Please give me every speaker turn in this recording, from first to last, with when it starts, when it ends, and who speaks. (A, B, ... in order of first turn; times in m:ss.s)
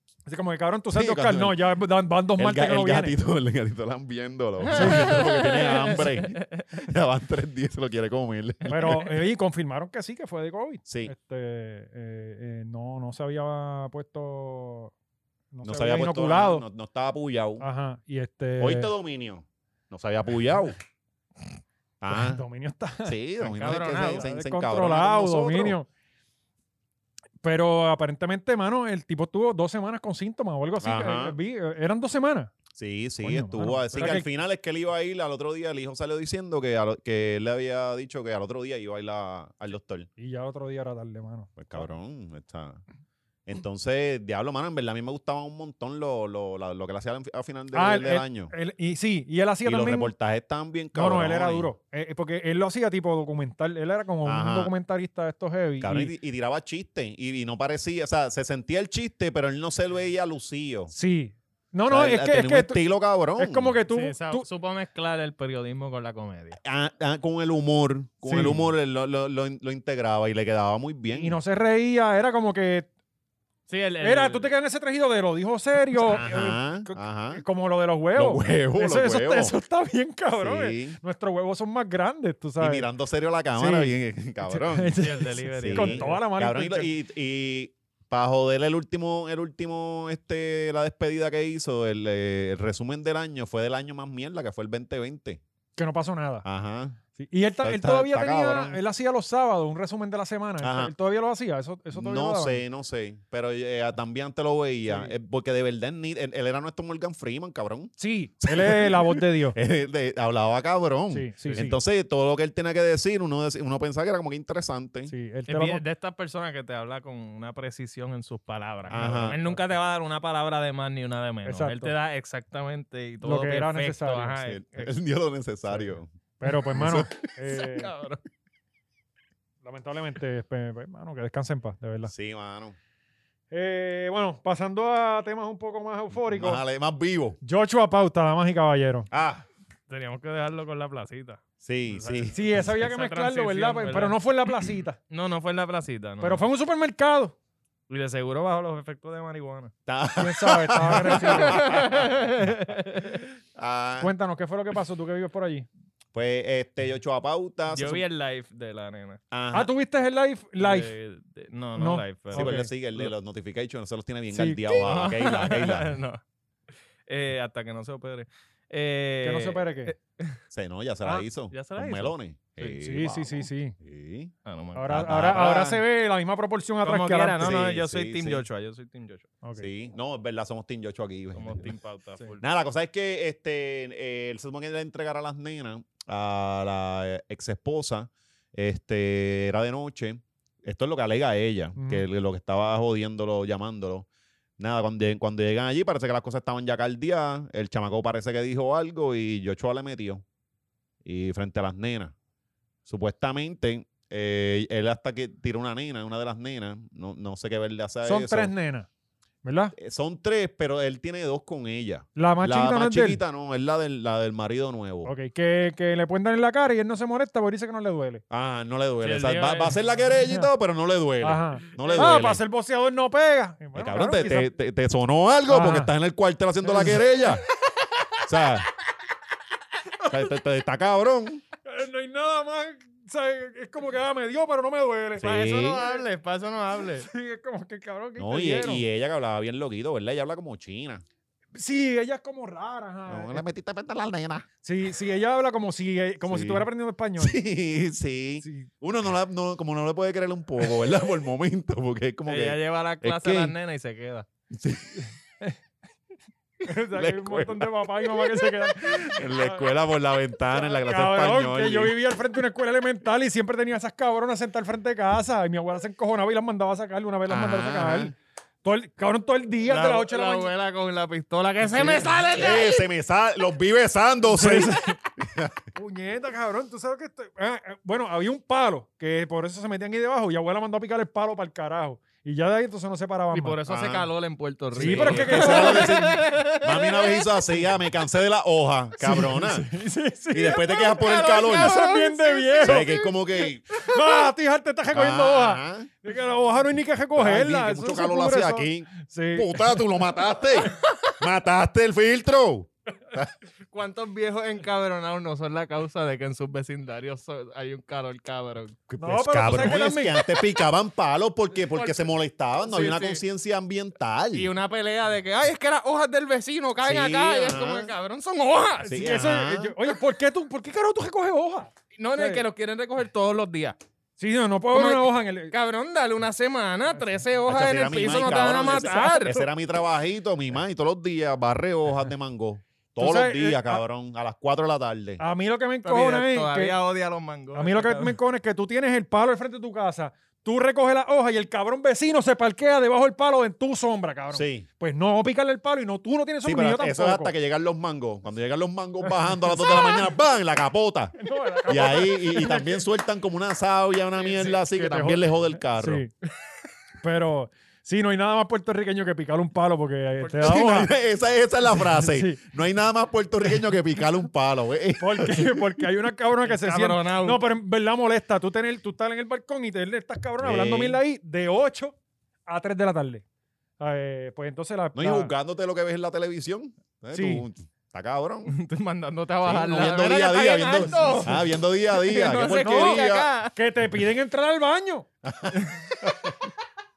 0:00.3-0:03.2 A
0:00.9-0:01.6 B
0:02.4-0:09.0 B
0:04.6-0:06.6 C
0:04.7-0:05.2 A
0:08.7-0:14.9 A
0:10.9-0:11.1 B
0:15.5-0:16.6 A
0:15.6-0:17.6 B
0:17.6-0:18.9 A
0:18.6-0:20.8 B
0:22.0-0:22.4 B
0:22.1-0:23.2 A
0:23.0-0:25.8 B
0:23.4-0:24.2 C
0:23.7-0:25.9 A
0:27.4-0:32.5 A
0:30.8-0:31.4 B
0:32.7-0:40.1 B
0:33.2-0:34.3 A
0:40.2-0:41.8 A
0:41.6-0:42.8 B
0:43.5-0:48.5 B
0:47.7-0:50.1 A
0:49.6-0:51.7 B
0:50.9-0:56.1 A
0:54.2-0:54.7 B
0:55.8-1:00.9 B
1:00.9-1:02.8 A
1:01.9-1:03.8 B
1:03.4-1:04.4 A
1:03.9-1:06.6 C
1:06.6-1:11.4 B
1:08.2-1:08.6 A
1:11.1-1:12.9 A
1:13.7-1:14.5 C
1:14.0-1:22.9 A
1:16.0-1:17.4 B
1:18.2-1:19.5 B
1:20.4-1:21.0 B
1:22.6-1:25.0 B
1:23.6-1:23.9 A
1:24.4-1:26.9 A
1:25.0-1:26.2 C
1:25.6-1:35.4 B
1:35.8-1:36.5 A
1:36.4-1:37.0 B
1:37.2-1:42.6 A
1:37.6-1:38.8 B
1:40.6-1:40.9 B
1:41.9-1:55.1 B
1:44.9-1:45.1 A
1:48.0-1:49.6 A
1:51.1-1:51.8 A
1:55.1-1:55.8 A
1:55.5-2:04.9 C
1:58.9-1:59.4 B
1:58.9-1:59.6 A
2:01.5-2:01.9 A
2:03.2-2:04.4 A
2:04.4-2:06.1 B
2:06.4-2:07.9 A
2:06.7-2:07.2 B
2:07.5-2:08.2 C
2:09.6-2:12.1 A
2:12.1-2:12.8 B
2:13.5-2:16.6 A
2:16.2-2:17.4 B
2:17.4-2:19.1 A
2:19.1-2:19.4 B
2:19.9-2:24.2 C
2:21.6-2:22.6 B
2:22.4-2:25.0 A
2:25.1-2:26.4 C
2:26.2-2:27.4 A
2:27.9-2:29.7 C
2:29.9-2:32.1 B
2:30.2-2:31.8 A
2:31.1-2:33.3 C
2:33.6-2:34.1 B
2:34.0-2:35.7 A
2:36.1-2:38.0 B
2:37.7-2:39.2 C
2:39.3-2:39.7 B
2:39.5-2:40.9 A
2:40.6-2:42.6 C
2:41.8-2:42.7 A
2:42.3-2:46.0 B
2:44.3-2:44.8 A
2:44.7-2:46.2 C
2:47.1-2:50.4 C
2:49.2-2:49.9 A
2:50.5-2:54.3 B
2:51.5-2:52.7 C
2:52.8-2:53.8 A
2:54.4-2:55.2 C
2:54.8-2:57.5 A
2:54.9-2:55.8 B
2:56.8-2:59.3 C
2:57.4-2:58.4 B
2:59.4-2:59.7 A
2:59.6-3:01.7 B
3:01.4-3:02.4 C
3:02.4-3:14.1 B
3:11.8-3:12.0 A
3:14.6-3:20.2 B
3:21.0-3:22.1 B
3:22.9-3:28.5 B
3:28.0-3:28.9 A
3:29.4-3:29.8 A
3:29.8-3:35.1 B
3:32.2-3:33.2 A
3:35.0-3:38.2 A
3:38.3-3:42.4 B
3:39.0-3:39.8 C
3:41.2-3:44.5 A
3:43.8-3:47.4 B
3:45.5-3:45.9 A
3:46.6-3:47.1 A
3:48.2-3:48.7 B
3:50.1-3:51.4 B
3:51.6-3:56.0 A
3:55.2-3:55.8 B
3:55.2-3:57.1 C
3:57.0-3:58.8 A
3:58.2-4:01.0 B
4:01.5-4:03.4 A
4:03.1-4:04.5 B
4:04.6-4:07.4 A
4:06.3-4:06.7 B
4:07.2-4:13.6 B
4:08.4-4:08.7 A
4:12.3-4:14.3 C
4:14.5-4:15.0 B
4:16.6-4:19.7 A
4:16.9-4:22.0 B
4:20.5-4:30.5 A
4:27.3-4:28.1 B
4:29.7-4:32.8 C
4:31.7-4:35.6 B
4:34.3-4:35.0 A
4:35.8-4:43.6 A
4:43.3-4:47.3 C
4:43.7-4:44.1 B
4:44.8-4:46.0 A
4:44.8-4:49.7 B
4:49.0-4:52.9 A
4:50.3-4:51.8 B
4:50.7-4:53.1 C
4:52.6-4:53.6 B
4:53.8-4:59.8 A
4:54.9-4:55.9 B
4:57.2-5:03.3 B
5:03.7-5:08.8 C
5:08.9-5:14.5 B
5:09.0-5:10.3 A
5:11.7-5:13.2 C
5:14.3-5:19.0 C
5:16.8-5:17.9 B
5:18.8-5:22.4 A
5:18.8-5:19.8 B
5:22.0-5:23.8 C
5:24.2-5:25.5 A
5:24.7-5:29.4 C
5:27.5-5:35.2 B
5:28.6-5:29.4 A
5:33.0-5:33.8 A
5:35.2-5:36.8 A
5:35.8-5:38.2 C
5:37.6-5:47.3 A
5:44.3-5:44.7 B
5:46.4-5:56.0 B
5:49.4-5:50.0 A
5:51.2-5:52.8 A
5:54.4-5:56.1 A
5:57.0-6:00.9 A
6:00.4-6:05.7 B
6:01.8-6:02.4 A
6:05.0-6:13.2 A
6:06.4-6:07.4 C
6:10.4-6:11.0 B
6:13.8-6:15.3 A
6:15.0-6:18.5 B
6:17.1-6:17.4 A
6:18.5-6:23.5 C
6:19.4-6:23.3 B
6:20.8-6:21.3 A
6:22.6-6:23.0 A
6:23.6-6:25.1 A
6:25.2-6:26.5 B